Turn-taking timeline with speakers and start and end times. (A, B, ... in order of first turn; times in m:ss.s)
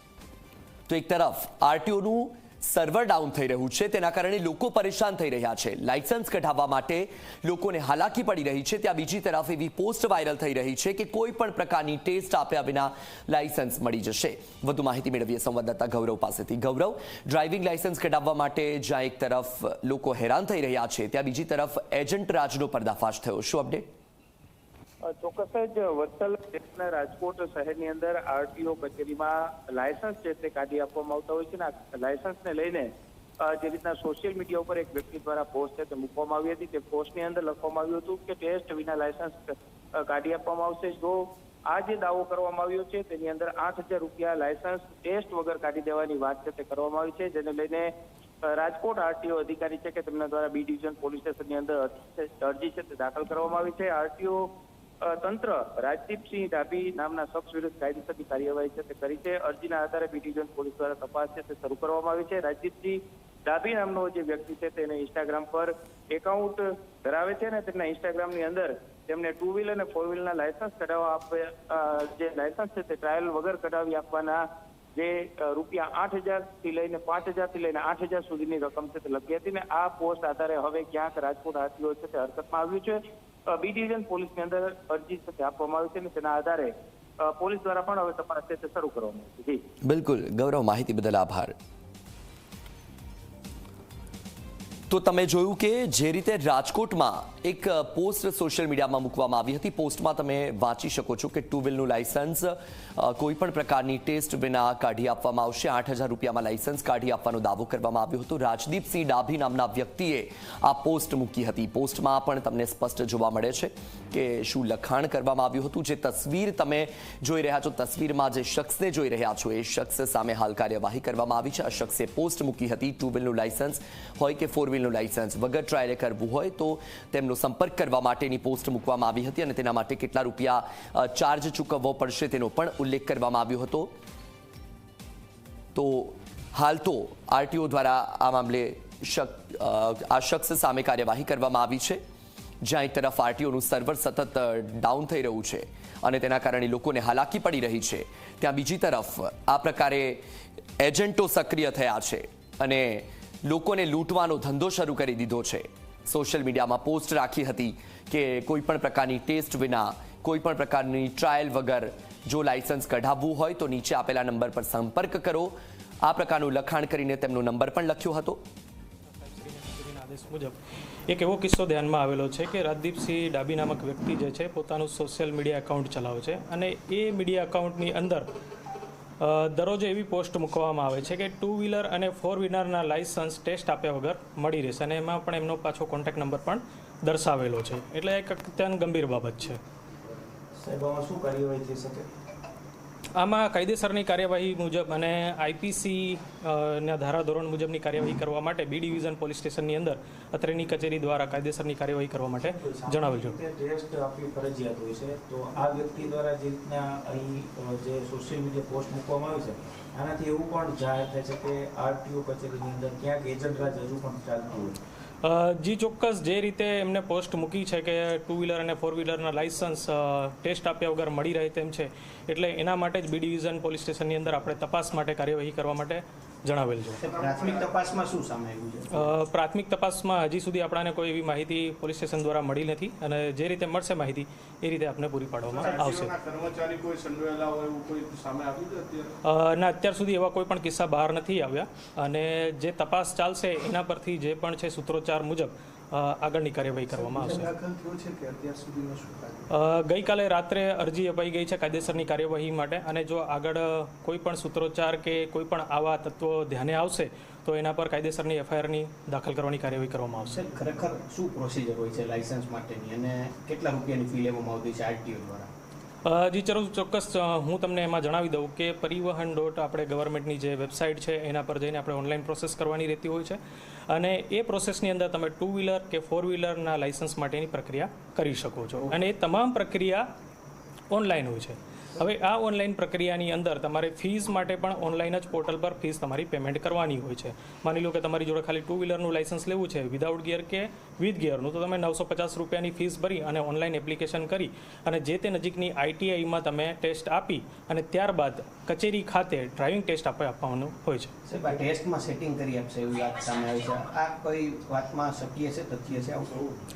0:00.9-0:23.9 A
0:25.0-0:47.9 B
0:48.4-0:54.5 B
0:55.0-1:29.6 B
1:29.8-1:31.6 A
1:34.9-2:13.9 A
2:15.8-2:22.0 A
2:22.6-2:30.2 A
2:30.8-2:48.4 A
2:49.1-2:50.6 C
2:51.1-2:58.3 C
2:59.2-3:09.6 C
3:10.6-3:12.1 D
3:13.2-3:23.4 C
3:22.4-3:34.8 D
3:35.2-3:47.0 C
3:47.0-3:49.1 E
3:47.0-3:47.7 F
3:48.9-3:56.1 C
3:55.5-3:59.1 F
3:59.2-4:07.6 C
4:07.0-4:09.5 F
4:09.5-4:20.5 C
4:20.3-4:25.5 E
4:26.1-4:33.4 C
4:33.9-4:40.1 C
4:40.9-5:01.1 C
5:01.3-5:06.6 E